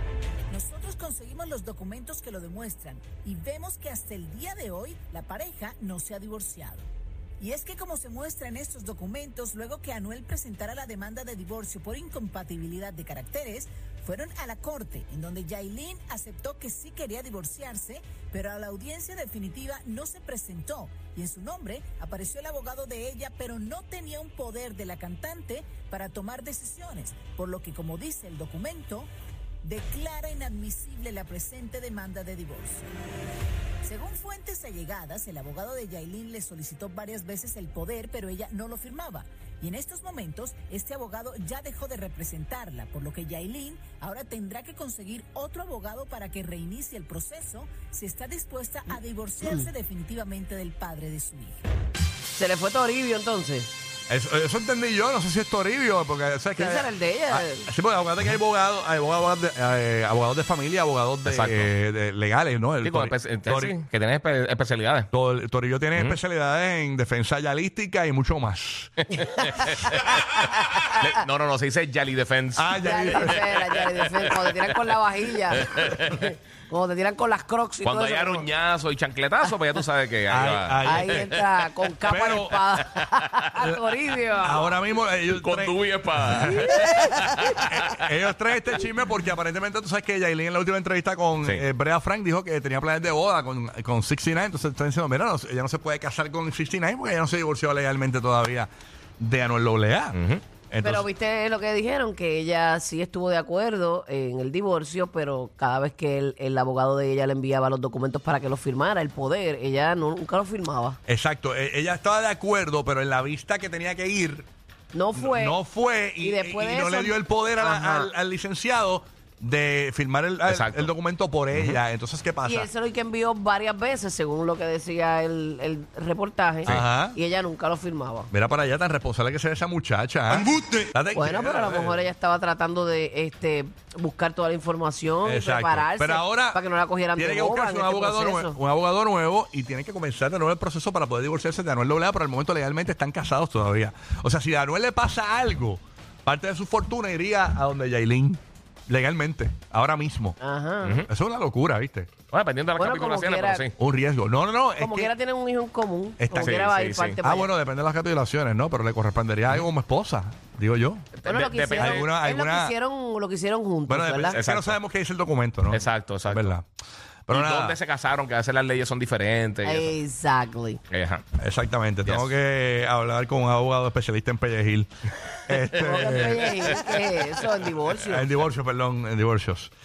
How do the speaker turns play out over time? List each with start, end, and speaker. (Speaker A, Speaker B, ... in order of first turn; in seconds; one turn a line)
Speaker A: 0.5-6.9
Speaker A: 7.4-29.1
Speaker A: 29.6-32.9
Speaker A: 33.8-51.7
Speaker B: 49.4-49.7
Speaker B: 52.4-53.7
Speaker C: 54.1-63.8
Speaker B: 56.6-57.7
Speaker D: 61.2-61.7
Speaker D: 62.8-65.1
Speaker C: 65.1-69.1
Speaker D: 69.1-70.2
Speaker B: 69.3-71.0
Speaker D: 70.9-74.7
Speaker C: 72.5-73.4
Speaker B: 72.8-78.5
Speaker D: 75.5-76.3
Speaker D: 77.8-83.2
Speaker C: 80.3-81.3
Speaker B: 80.8-84.8
Speaker C: 82.1-82.6
Speaker C: 84.4-86.7
Speaker D: 85.3-88.0
Speaker C: 87.7-100.2
Speaker D: 100.1-100.4
Speaker C: 100.7-101.1
Speaker B: 100.8-111.0
Speaker C: 111.1-114.5
Speaker B: 114.9-115.6
Speaker C: 115.2-122.7
Speaker B: 116.2-118.1
Speaker D: 120.5-120.9
Speaker B: 122.5-128.3
Speaker C: 126.7-127.2
Speaker C: 128.3-132.0
Speaker D: 130.3-130.7
Speaker B: 131.2-138.6
Speaker C: 135.2-136.6
Speaker C: 137.2-150.4
Speaker B: 150.4-151.0
Speaker D: 150.8-151.1
Speaker C: 151.0-152.1
Speaker D: 152.3-153.7
Speaker B: 152.8-153.7
Speaker C: 153.8-155.1
Speaker B: 154.8-157.5
Speaker C: 156.2-161.1
Speaker D: 156.4-157.2
Speaker D: 161.2-162.1
Speaker B: 161.3-164.4
Speaker C: 161.8-162.8
Speaker C: 163.9-166.7
Speaker D: 164.3-164.8
Speaker D: 165.7-166.5
Speaker C: 167.3-167.8
Speaker D: 167.3-169.9
Speaker B: 169.6-170.8
Speaker D: 170.9-171.2
Speaker C: 171.4-174.9
Speaker D: 172.1-172.3
Speaker C: 175.5-176.7
Speaker B: 175.8-178.3
Speaker D: 175.9-176.3
Speaker C: 178.0-179.7